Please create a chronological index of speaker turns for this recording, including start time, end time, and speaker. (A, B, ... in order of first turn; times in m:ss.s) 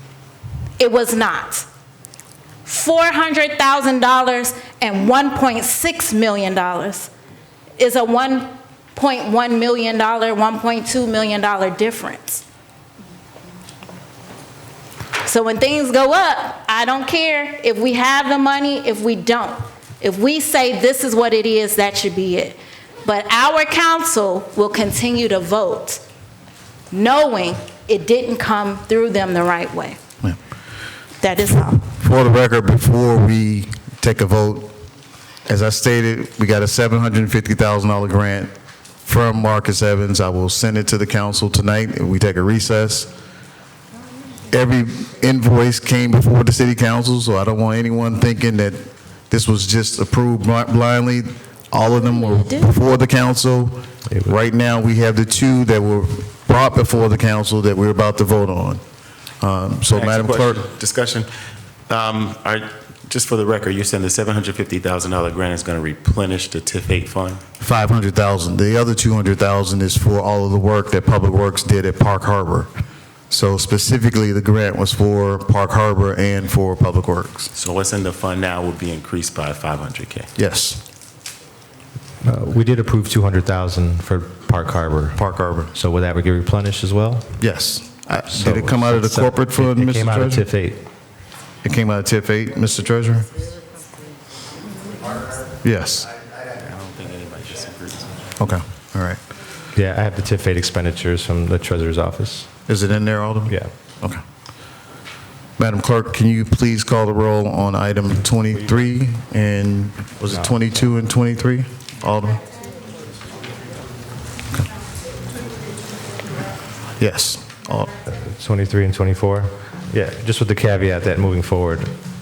0:00.8-0:01.6 A
0:02.6-0:07.1 A
0:07.8-0:12.4 A
0:15.2-0:26.0 A
0:26.9-0:30.0 A
0:31.2-0:31.8 A
0:32.0-0:34.7 B
0:35.5-0:38.5 B
0:39.0-0:43.1 B
0:44.5-0:58.8 B
0:52.0-0:52.7 A
0:59.4-1:00.7 B
0:59.9-1:01.3 C
1:01.9-1:07.4 C
1:07.6-1:12.7 B
1:13.3-1:17.5 B
1:17.5-1:20.3 C
1:20.4-1:20.8 B
1:22.2-1:25.2 D
1:25.2-1:25.7 B
1:25.7-1:27.2 D
1:27.4-1:30.4 B
1:28.3-1:30.8 D
1:31.6-1:33.3 B
1:35.6-1:36.1 B
1:36.6-1:38.3 C
1:38.4-1:39.2 B
1:39.8-1:42.5 D
1:42.7-1:44.2 B
1:45.6-1:52.4 B
1:50.3-1:50.6 D
1:57.0-1:58.0 B
1:58.1-2:01.9 D